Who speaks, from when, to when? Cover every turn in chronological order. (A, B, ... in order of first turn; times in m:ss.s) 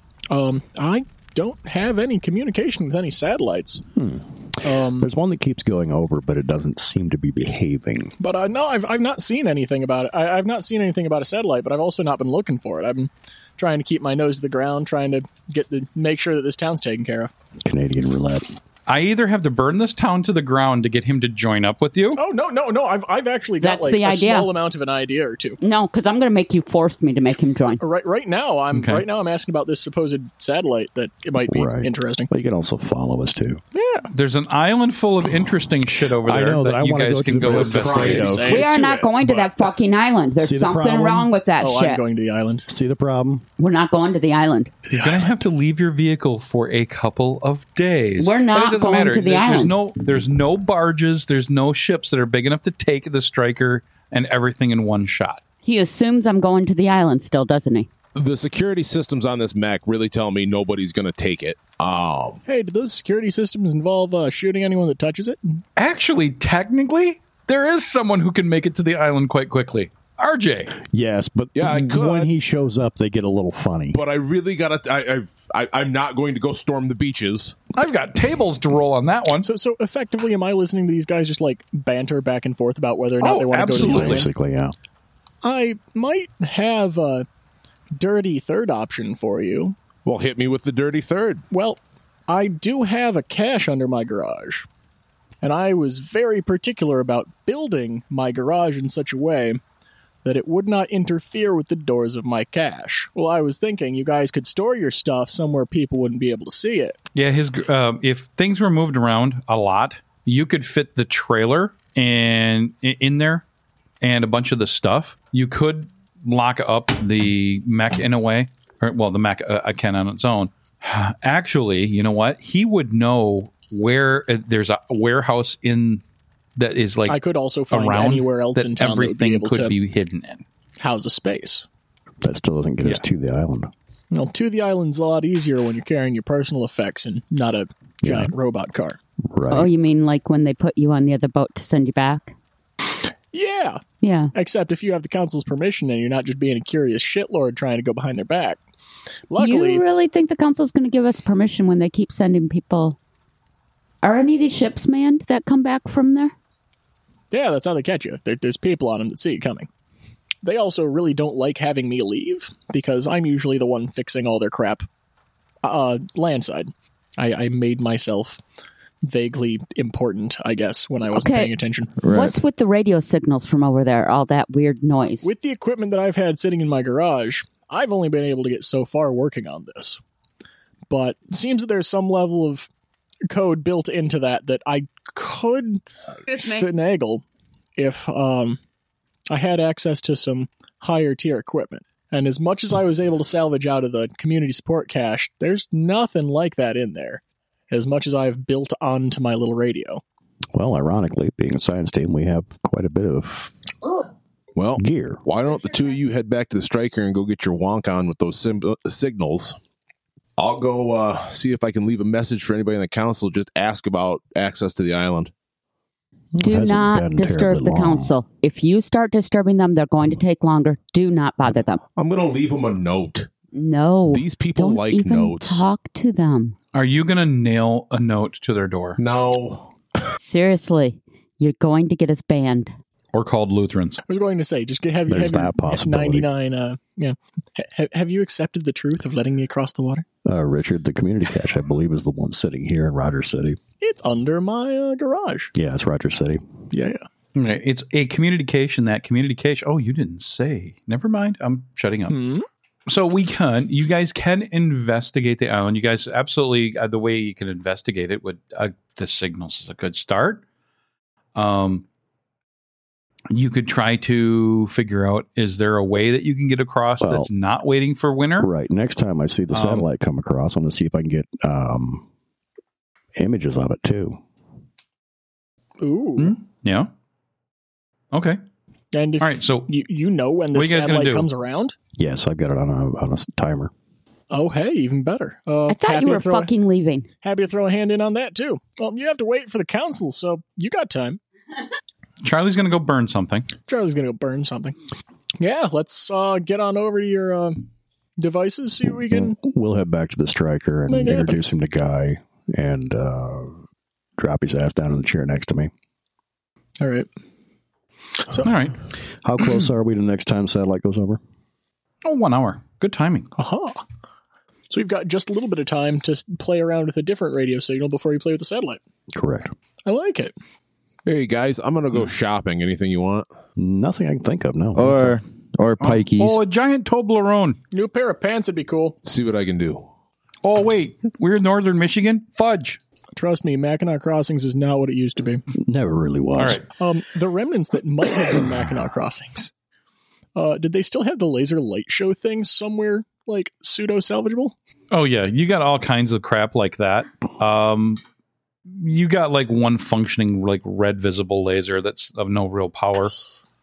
0:00.3-0:03.8 A
0:03.9-0:08.1 B
0:04.6-0:05.1 A
0:08.2-0:17.3 A
0:17.6-0:18.5 B
0:18.9-0:22.2 C
0:22.1-0:25.6 A
0:23.6-0:24.5 D
0:25.6-0:27.8 D
0:27.8-0:32.3 A
0:28.7-0:29.0 C
0:31.5-0:33.6 B
0:33.7-0:34.1 A
0:34.1-0:38.4 C
0:36.2-0:38.6 B
0:37.4-0:39.1 A
0:37.7-0:38.5 E
0:38.4-0:42.0 D
0:40.4-0:41.3 B
0:41.6-0:42.7 A
0:42.7-0:43.4 B
0:43.6-0:44.7 D
0:44.9-0:45.4 A
0:45.0-0:55.4 C
0:48.2-0:49.7 D
0:55.6-0:57.9 D
0:58.2-1:02.4 E
1:02.4-1:05.6 A
1:05.8-1:10.7 C
1:10.8-1:14.0 B
1:11.6-1:12.3 E
1:13.9-1:17.6 E
1:17.7-1:19.5 C
1:19.4-1:24.3 A
1:23.2-1:24.3 C
1:23.7-1:24.7 B
1:25.4-1:27.2 A
1:27.9-1:29.8 A
1:30.0-1:31.4 E
1:31.5-1:34.6 A
1:35.4-1:39.6 A
1:40.2-1:47.0 A
1:47.1-1:53.4 C
1:54.0-2:06.0 C
2:06.6-2:10.4 C
2:07.1-2:09.7 A
2:10.8-2:11.6 A
2:12.2-2:13.7 B
2:14.1-2:19.0 A
2:18.0-2:18.3 B
2:19.2-2:19.7 B
2:19.5-2:22.3 D
2:23.3-2:23.8 A
2:24.0-2:24.3 D
2:24.3-2:28.6 A
2:29.3-2:29.8 A
2:29.4-2:33.0 D
2:34.0-2:36.3 D
2:37.3-2:39.7 A
2:40.4-2:44.8 A
2:45.6-2:48.4 A
2:49.0-2:52.0 A
2:51.1-2:51.5 D
2:52.0-2:52.3 F
2:52.0-2:55.3 D
2:55.2-3:00.0 A
3:00.9-3:02.7 A
3:03.3-3:07.2 A
3:06.3-3:06.6 D
3:07.8-3:08.6 A
3:09.3-3:20.0 A
3:20.5-3:23.5 B
3:24.5-3:29.6 E
3:24.8-3:25.2 B
3:30.4-3:35.3 E
3:36.3-3:38.1 B
3:36.4-3:41.8 D
3:42.0-3:43.3 E
3:43.5-3:46.6 D
3:44.1-3:45.6 E
3:46.7-3:49.0 C
3:49.0-3:49.7 E
3:50.2-3:52.7 D
3:53.1-3:54.0 C
3:54.1-4:00.0 A
3:55.1-3:56.3 B
4:00.2-4:03.6 B
4:03.8-4:05.5 A
4:05.5-4:06.4 B
4:06.7-4:07.0 A
4:07.3-4:12.2 C
4:12.1-4:12.4 A
4:12.9-4:20.4 C
4:21.3-4:21.8 C
4:23.3-4:28.5 C
4:27.0-4:27.3 B
4:28.4-4:32.0 B
4:29.5-4:29.9 C
4:33.2-4:34.2 B
4:35.8-4:36.4 A
4:36.2-4:36.9 C
4:38.1-4:38.4 C
4:38.9-4:41.8 A
4:39.2-4:39.7 C
4:40.5-4:41.3 C
4:42.0-4:43.7 B
4:44.3-4:46.5 A
4:45.7-4:47.1 D
4:47.2-4:51.2 A
4:52.2-4:53.5 C
4:53.7-4:54.8 A
4:55.4-4:57.7 A
4:58.2-4:59.4 A
4:59.1-5:03.6 B
5:00.9-5:01.4 A
5:04.2-5:05.7 B
5:06.8-5:07.1 A
5:08.4-5:08.7 C
5:09.2-5:11.2 B
5:12.0-5:13.3 C
5:13.4-5:13.8 A
5:14.7-5:18.8 A
5:19.1-5:19.5 B
5:19.8-5:20.3 A
5:21.0-5:23.3 E
5:23.6-5:25.2 B
5:24.8-5:26.4 F
5:25.8-5:27.6 C
5:27.7-5:29.0 A
5:29.0-5:29.9 E
5:30.4-5:32.8 C
5:33.1-5:35.4 A
5:35.6-5:36.6 B
5:36.4-5:36.6 C
5:36.8-5:39.5 A
5:40.3-5:44.5 A
5:44.9-5:48.0 C
5:48.7-5:53.1 C